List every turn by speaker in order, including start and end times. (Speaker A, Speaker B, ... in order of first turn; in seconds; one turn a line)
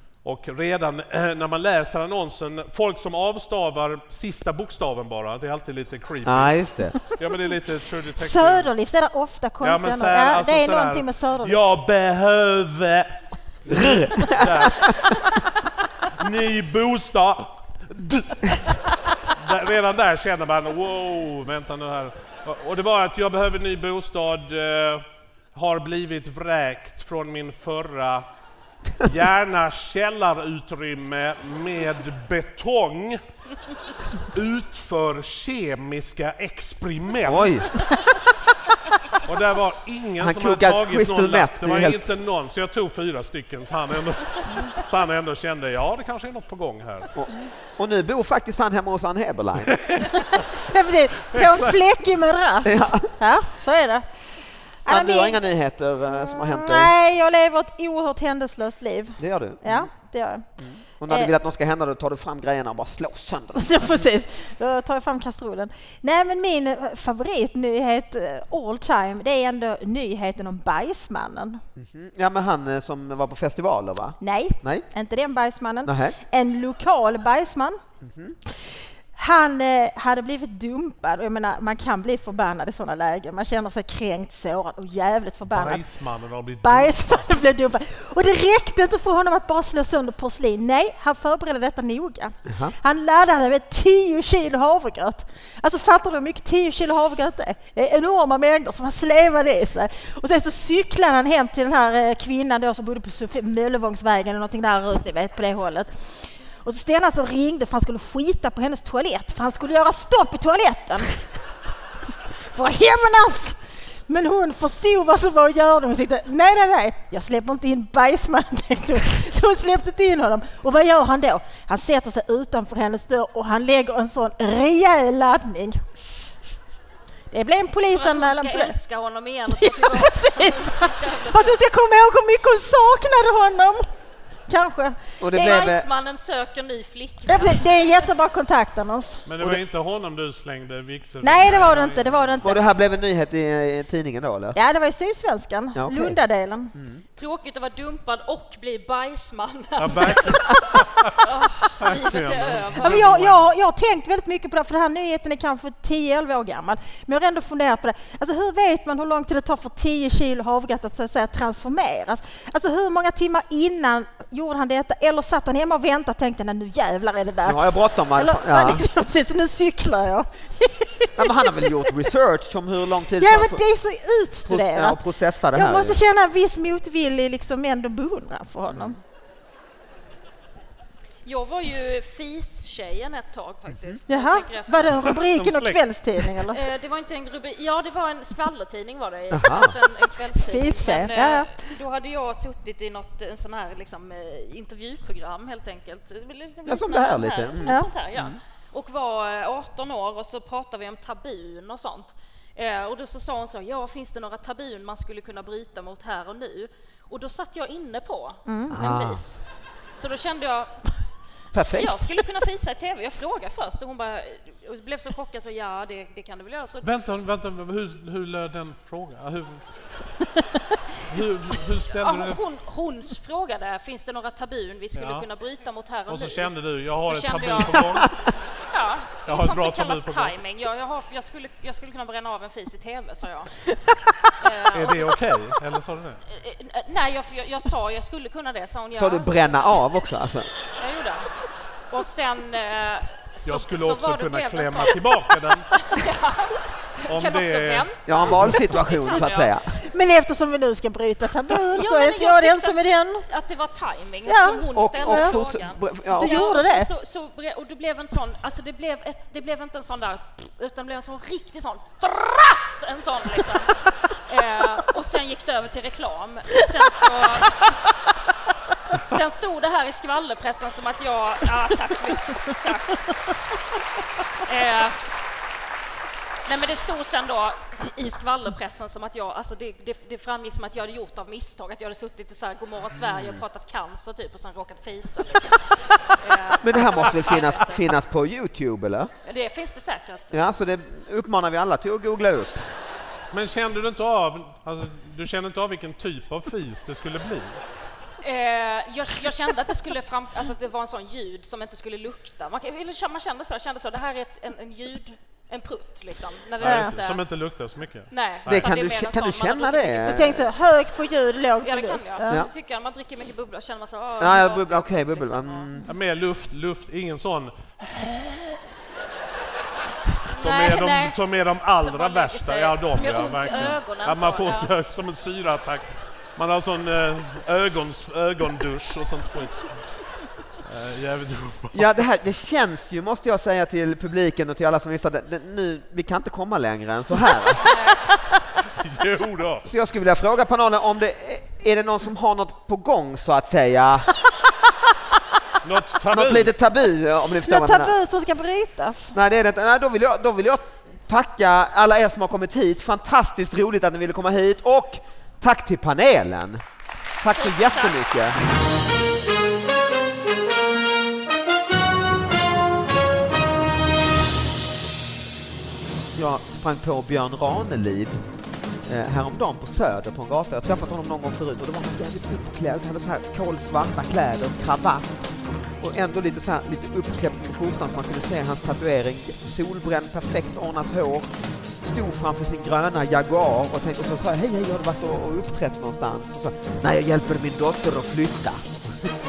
Speaker A: 0.2-8.7
Speaker B: 6.2-7.0
Speaker C: 8.2-11.6
Speaker A: 9.6-15.1
Speaker B: 13.7-14.9
Speaker A: 16.2-28.2
Speaker A: 29.0-33.2
Speaker A: 34.3-37.8
Speaker B: 37.3-37.7
Speaker A: 39.2-47.1
Speaker B: 40.2-42.1
Speaker B: 47.1-49.9
Speaker A: 49.6-50.5
Speaker C: 50.1-54.1
Speaker A: 51.3-51.8
Speaker B: 52.6-53.1
Speaker C: 54.9-55.4
Speaker B: 54.9-56.9
Speaker C: 56.1-60.5
Speaker B: 59.2-59.9
Speaker B: 60.6-64.1
Speaker C: 61.1-61.3
Speaker C: 63.5-71.6
Speaker B: 71.8-74.9
Speaker C: 74.2-77.8
Speaker B: 75.8-76.2
Speaker B: 78.0-78.4
Speaker C: 78.5-85.8
Speaker A: 85.5-87.2
Speaker C: 86.6-111.3
Speaker B: 92.5-92.8
Speaker C: 112.4-125.8
Speaker C: 127.3-128.8
Speaker D: 127.9-131.6
Speaker C: 129.5-133.9
Speaker C: 134.5-135.0
Speaker B: 135.2-135.9
Speaker D: 135.3-137.6
Speaker C: 137.3-139.2
Speaker A: 139.3-142.4
Speaker C: 141.2-142.6
Speaker B: 142.4-144.6
Speaker C: 144.5-146.7
Speaker B: 145.8-146.2
Speaker B: 146.8-147.0
Speaker D: 147.2-153.0
Speaker A: 149.8-151.2
Speaker A: 151.8-153.4
Speaker C: 152.8-172.1
Speaker B: 167.4-168.8
Speaker B: 171.2-173.6
Speaker C: 173.2-175.0
Speaker B: 174.4-176.0
Speaker C: 175.5-179.0
Speaker B: 178.7-179.0
Speaker D: 181.2-185.2
Speaker C: 184.1-186.6
Speaker A: 185.1-186.4
Speaker D: 186.5-210.8
Speaker B: 189.3-189.8
Speaker C: 190.3-191.6
Speaker B: 196.7-198.4
Speaker C: 197.6-197.9
Speaker C: 208.5-208.8
Speaker B: 208.7-209.2
Speaker B: 211.5-212.2
Speaker D: 211.7-216.9
Speaker A: 216.8-219.7
Speaker A: 220.9-222.4
Speaker D: 221.9-226.5
Speaker A: 224.9-225.3
Speaker A: 226.1-228.1
Speaker D: 227.1-228.1
Speaker D: 228.7-233.7
Speaker A: 229.2-230.3
Speaker D: 234.4-235.3
Speaker A: 234.7-236.2
Speaker D: 236.3-239.3
Speaker B: 238.9-240.5
Speaker D: 240.8-241.3
Speaker D: 241.9-245.0
Speaker A: 243.4-245.8
Speaker D: 245.7-249.5
Speaker A: 247.1-248.6
Speaker B: 248.1-249.7
Speaker C: 249.7-253.2
Speaker D: 251.7-267.9
Speaker C: 254.3-255.4
Speaker B: 254.7-256.4
Speaker C: 256.1-256.9
Speaker D: 268.9-273.3
Speaker D: 274.3-275.0
Speaker D: 276.5-287.9
Speaker B: 282.9-283.4
Speaker B: 286.6-289.1
Speaker D: 289.2-290.4
Speaker B: 290.3-292.7
Speaker A: 293.3-297.6
Speaker D: 298.2-307.2
Speaker A: 306.6-308.7
Speaker C: 306.6-306.9
Speaker D: 308.1-310.4
Speaker B: 308.5-310.5
Speaker C: 310.0-312.5
Speaker D: 311.6-315.7
Speaker B: 314.2-315.9
Speaker A: 315.9-318.6
Speaker A: 320.3-329.8
Speaker D: 320.3-321.2
Speaker D: 321.8-324.7
Speaker A: 330.6-331.9
Speaker B: 331.7-337.8
Speaker D: 337.6-338.1
Speaker A: 338.7-339.7
Speaker B: 339.6-344.1
Speaker A: 345.6-346.5
Speaker B: 346.1-347.9
Speaker C: 347.4-349.2
Speaker B: 349.1-356.6
Speaker B: 357.2-358.4
Speaker D: 357.3-358.0
Speaker B: 366.2-368.2
Speaker B: 368.9-381.3
Speaker B: 381.8-388.7